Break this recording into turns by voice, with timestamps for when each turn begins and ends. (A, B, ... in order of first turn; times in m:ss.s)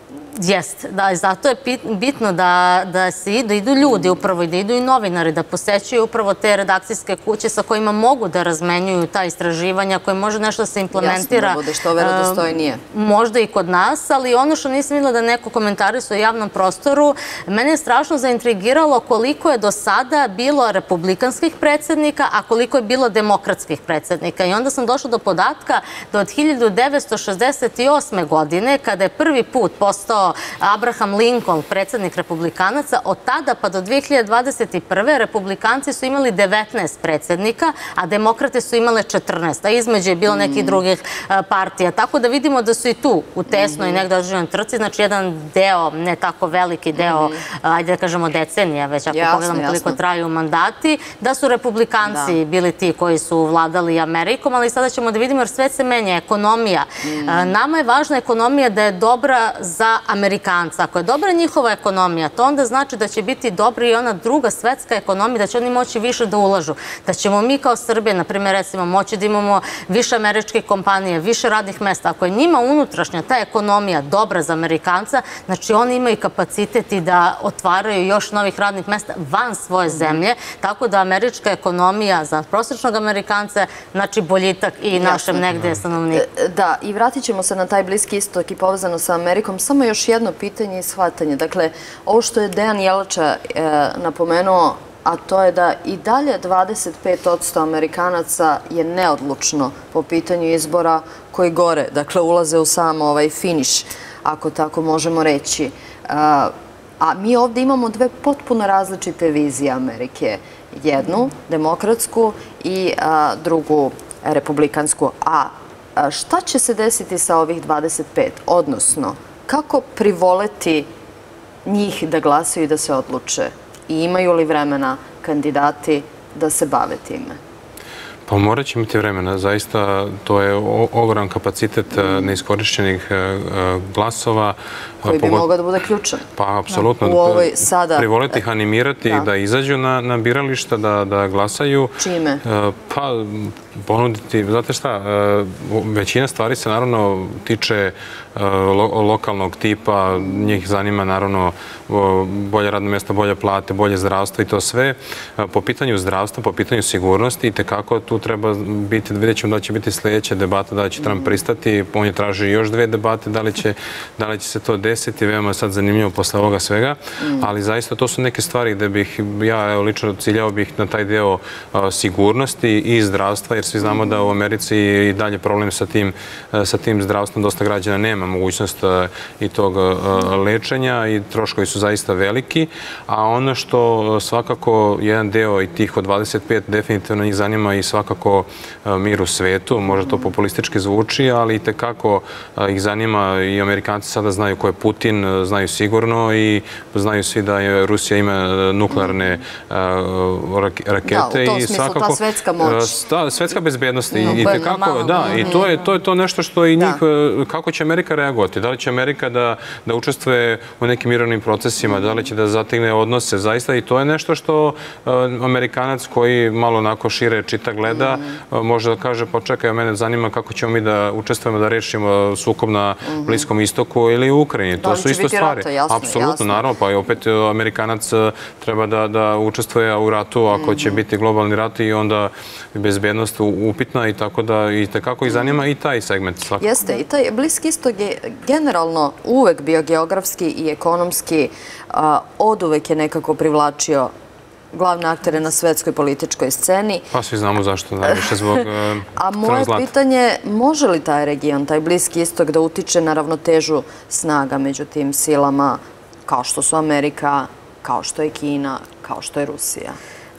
0:00.4-1:26.2 A
0:03.9-0:04.2 B
0:10.9-0:12.8 B
0:40.3-0:40.8 B
0:43.5-0:44.0 B
0:47.0-0:47.4 B
0:49.1-0:50.0 B
0:52.0-0:52.4 B
0:57.0-0:57.5 B
1:19.9-1:20.2 B
1:24.9-1:25.4 B
1:26.1-2:00.9 B
2:01.6-2:07.4 B
2:08.3-2:15.5 C
2:11.9-2:12.3 B
2:15.0-2:16.3 B
2:16.4-3:56.7 C
2:17.0-2:18.3 B
2:22.0-2:22.4 B
2:41.0-2:41.3 B
2:47.2-2:47.5 B
3:18.9-3:19.2 B
3:21.1-3:23.0 B
3:24.1-3:25.7 B
3:24.2-3:25.8 A
3:37.9-3:38.4 B
3:43.1-3:43.4 B
3:44.8-3:46.6 B
3:50.5-3:51.0 B
3:55.3-3:55.5 B
3:56.6-4:04.1 B
4:04.7-4:07.1 B
4:07.1-4:09.9 C
4:08.1-4:08.6 B
4:09.2-4:20.0 B